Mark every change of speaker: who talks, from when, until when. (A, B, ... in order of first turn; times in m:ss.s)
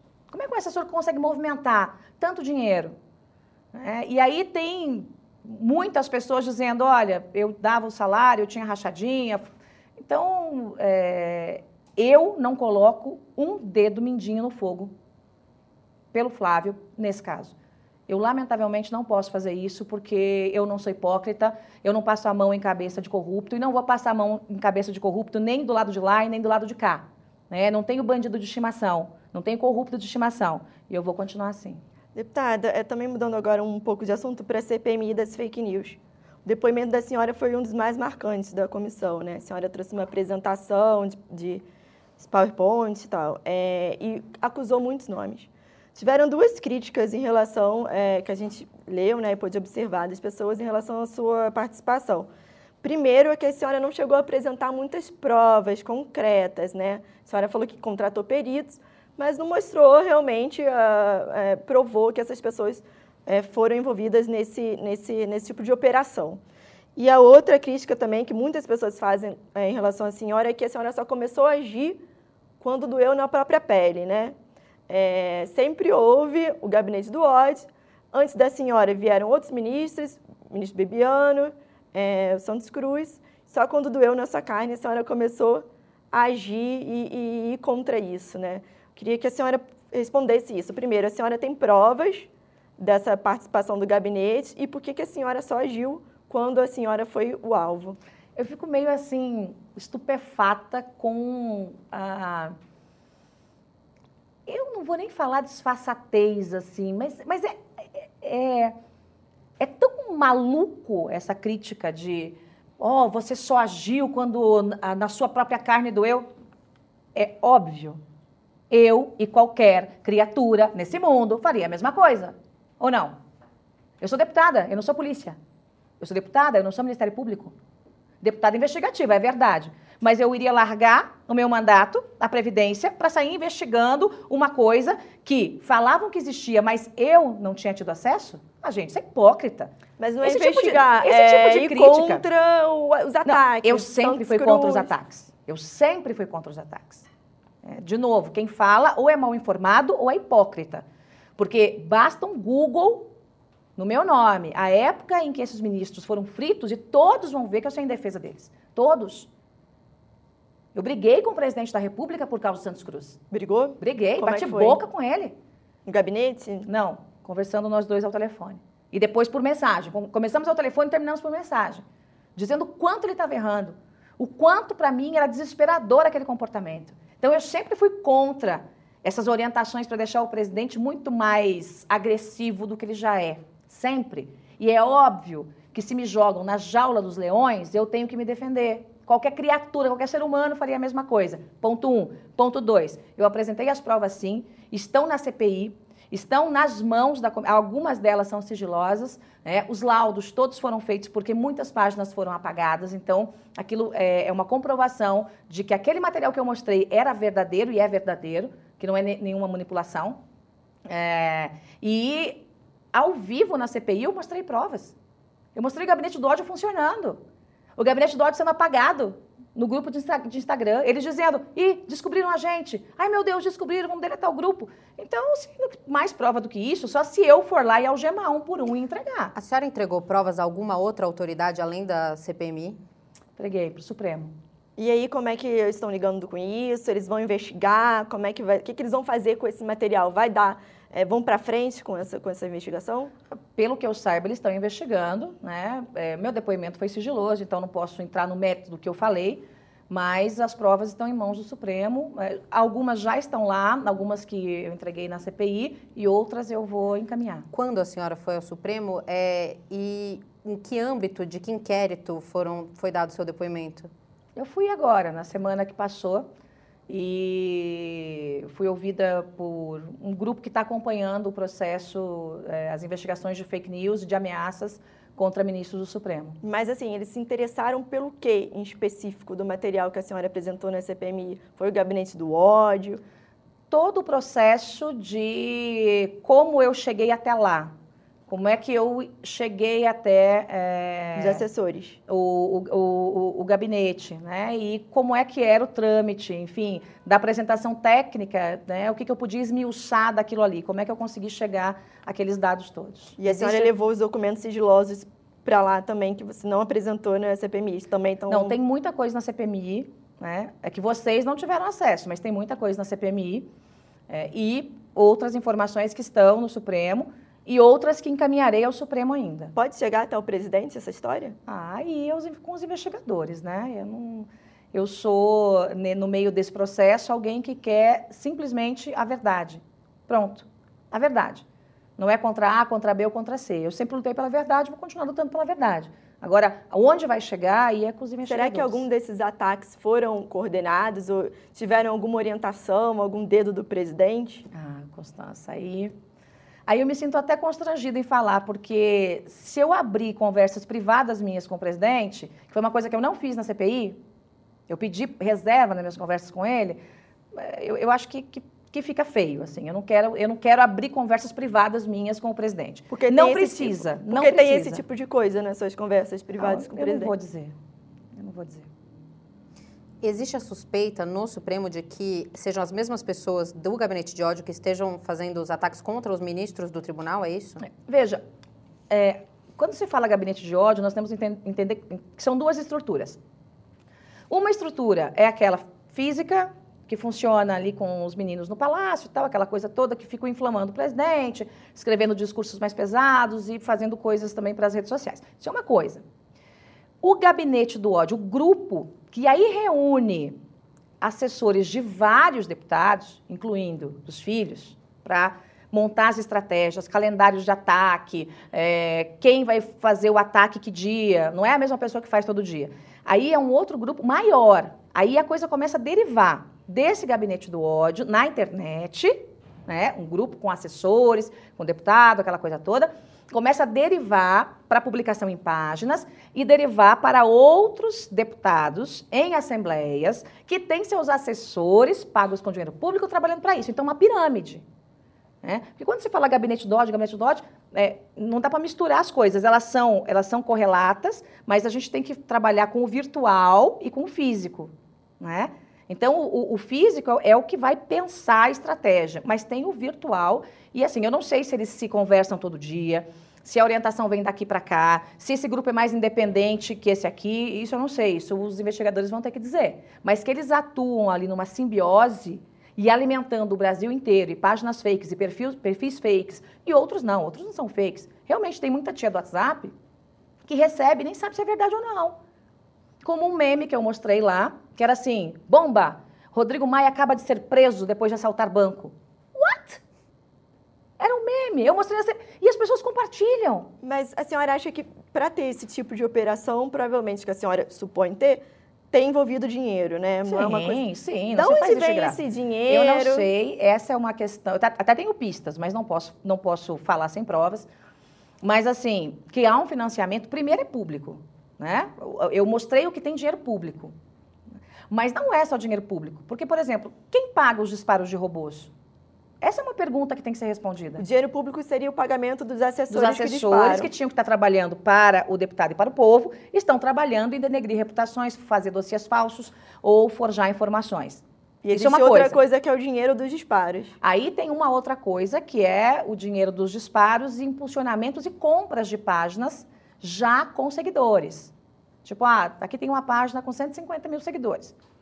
0:00.3-0:02.9 A
0:03.7-0:09.4 A
0:10.0-0:14.9 A
0:16.1-0:17.5 A
0:18.1-0:31.8 A
0:32.1-0:41.6 B
0:42.2-0:52.3 B
0:52.8-1:06.4 B
1:07.0-1:12.0 B
1:12.6-1:14.4 B
1:14.9-1:38.0 B
1:38.4-1:42.6 A
1:44.5-1:48.8 A
1:49.6-1:56.3 A
1:57.1-1:58.0 A
1:58.7-2:03.1 A
2:04.0-2:05.4 A
2:06.0-2:07.5 A
2:08.2-2:19.7 A
2:20.0-2:24.9 B
2:20.2-2:22.2 A
2:23.2-2:27.0 A
2:27.6-2:30.8 A
2:31.4-2:33.1 A
2:33.8-2:39.3 A
2:40.7-2:43.2 A
2:43.3-2:44.8 B
2:43.8-2:45.4 A
2:45.9-2:46.7 B
2:46.6-2:51.8 A
2:52.4-3:30.2 A
3:30.9-3:34.9 A
3:35.6-3:37.2 A
3:37.8-3:49.3 A
3:49.4-3:52.8 C
3:53.4-3:54.3 A
3:54.8-4:03.1 B
4:03.6-4:17.5 A
4:17.5-4:23.9 C
4:24.4-4:26.2 A
4:26.9-4:36.4 A
4:36.4-4:43.0 B
4:43.7-4:47.7 A
4:48.3-4:51.4 A
4:51.2-4:52.0 B
4:52.1-5:03.7 A
5:03.2-5:08.6 B
5:08.3-5:13.5 A
5:14.1-5:19.5 A
5:19.6-5:21.4 B
5:21.5-5:31.4 A
5:32.0-5:38.8 A
5:38.3-5:44.5 B
5:44.5-5:45.9 A
5:46.7-5:54.0 A
5:54.7-5:56.8 A
5:57.3-6:04.8 A
6:02.9-6:07.1 B
6:06.4-6:07.6 A
6:08.2-6:08.7 A
6:10.0-6:17.6 C
6:17.6-6:18.2 A
6:18.9-6:23.2 A
6:24.3-6:36.0 A
6:37.0-6:40.4 A
6:41.0-7:14.6 A
7:15.4-7:49.7 A
7:50.4-7:52.2 A
7:53.0-7:59.8 A
8:01.0-8:03.7 A
8:03.8-8:13.3 B
8:10.3-8:17.7 A
8:18.4-8:23.9 A
8:24.9-8:28.7 A
8:29.4-8:31.0 A
8:31.0-8:33.9 B
8:32.9-8:42.4 A
8:41.6-8:44.0 B
8:44.0-8:51.5 A
8:52.0-8:54.7 A